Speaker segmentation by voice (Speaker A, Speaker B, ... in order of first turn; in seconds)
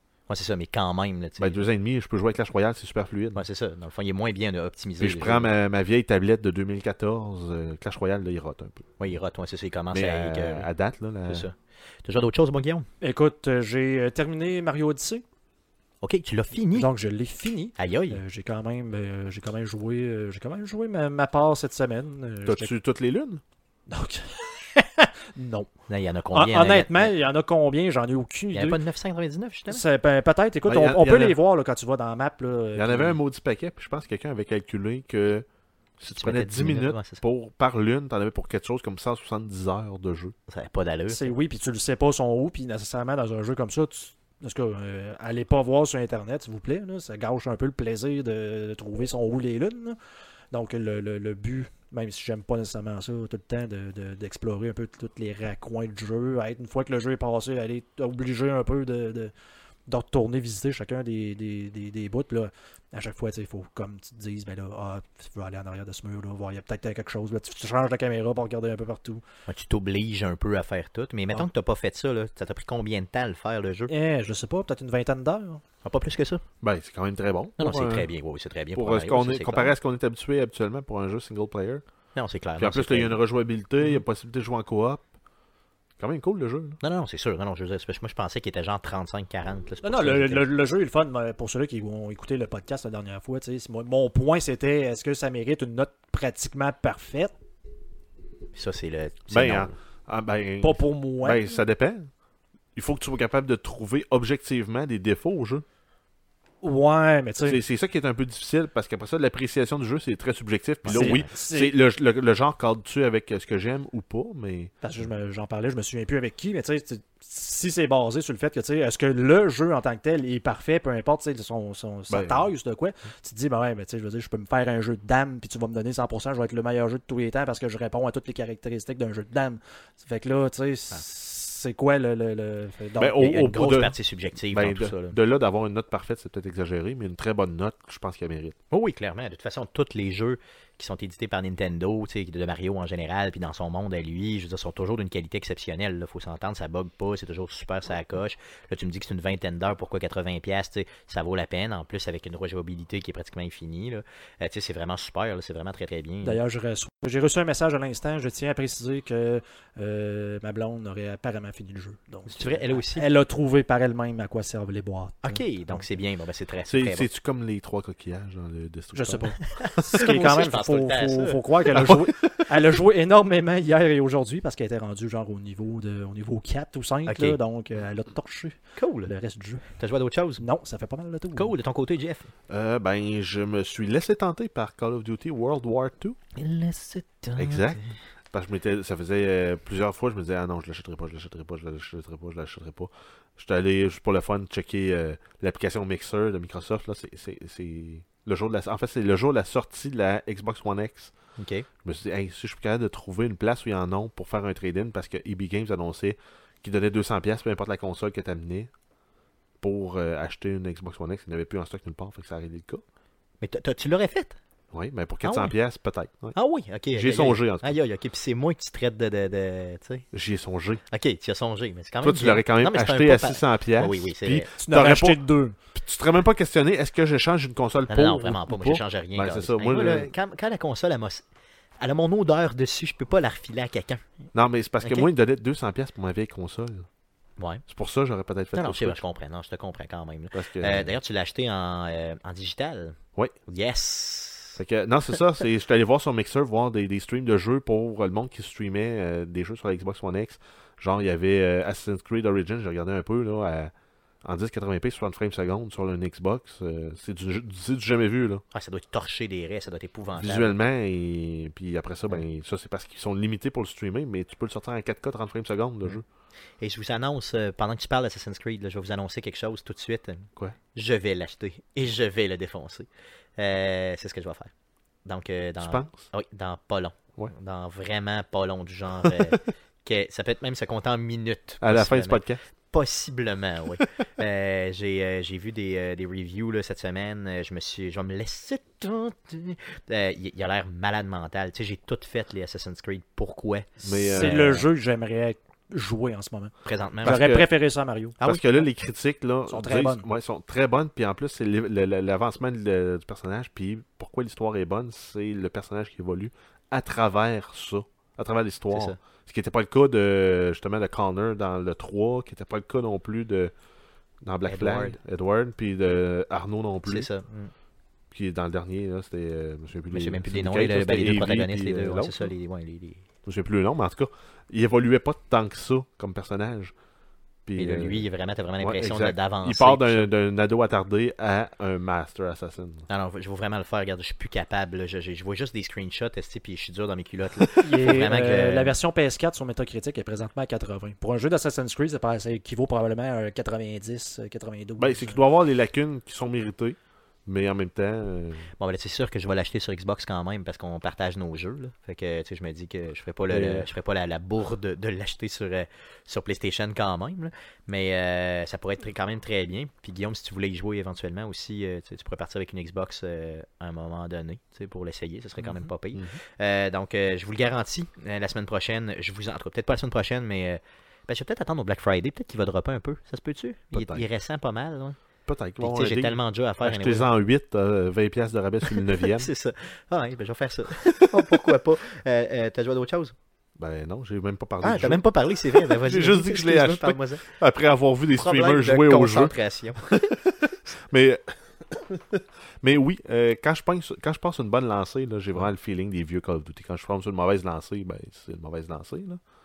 Speaker A: 0.3-1.6, 3.3-5.5, 9.0-10.7, 11.3-12.8, 16.0-16.9, 17.8-18.2, 25.9-27.1, 28.5-29.8, 36.1-37.2, 40.5-41.3, 69.5-73.9, 75.8-76.4, 77.6-79.7, 82.1-83.2, 86.8-90.5, 98.5-99.7, 110.8-111.3, 133.2-135.2, 138.7-156.4, 162.2-163.1, 165.2-167.1, 169.4-171.7, 177.1-177.4, 178.8-179.1, 179.8-180.4, 181.3-182.3, 186.3-187.9, 201.4-201.7, 213.4-214.4, 215.2-215.5, 216.3-220.1, 220.9-224.5, 227.9-231.2, 231.8-234.0, 234.8-235.1, 237.4-237.6, 238.5-244.6, 258.5-260.6, 266.6-274.5, 275.0-294.6, 296.6-297.3, 308.7-309.0, 314.4-315.0, 316.9-317.5, 319.9-323.0, 327.6-330.1, 332.9-338.7, 348.6-375.0, 375.6-377.1, 378.7-383.1, 384.6-387.2, 388.1-389.9
Speaker B: 1.4-3.4, 5.0-9.0, 9.9-11.4, 22.4-23.4, 30.6-31.4, 32.7-35.5, 36.0-40.3, 76.6-78.1, 78.7-81.8, 82.6-85.0, 86.0-86.8, 99.3-102.1, 102.7-105.6, 107.4-114.7, 122.1-122.5, 133.0-133.9, 134.5-138.6, 166.7-169.4, 171.7-172.4, 182.5-186.2, 187.4-187.8, 188.3-201.1, 201.8-208.7, 209.6-212.8, 214.7-216.3, 216.9-217.7, 220.1-220.8, 222.0-225.2, 225.7-230.1, 234.3-236.9, 237.7-239.0, 240.3-240.9, 244.6-253.7, 254.2-258.4, 260.1-266.0, 275.6-276.1, 279.0-279.3, 281.6-282.4, 293.8-294.6, 297.0-297.4, 298.2-313.5, 314.2-317.1, 318.1-322.3, 323.2-326.7, 327.4-328.1, 328.6-332.9, 344.8-348.5, 353.3-353.7, 373.7-374.1, 375.2-379.3, 381.0-381.3, 383.6-399.2
Speaker C: 13.0-15.2, 16.7-22.7, 23.9-25.7, 26.3-28.8, 29.7-33.2, 41.1-50.0, 50.5-59.3, 59.9-69.2, 73.9-75.6, 89.8-97.3, 100.6-101.5, 106.6-107.6, 110.9-111.7, 114.8-133.3, 156.2-165.8, 168.9-179.7, 180.4-181.5, 224.6-225.6, 294.0-298.2, 299.5-300.1, 337.6-345.2, 365.4-365.7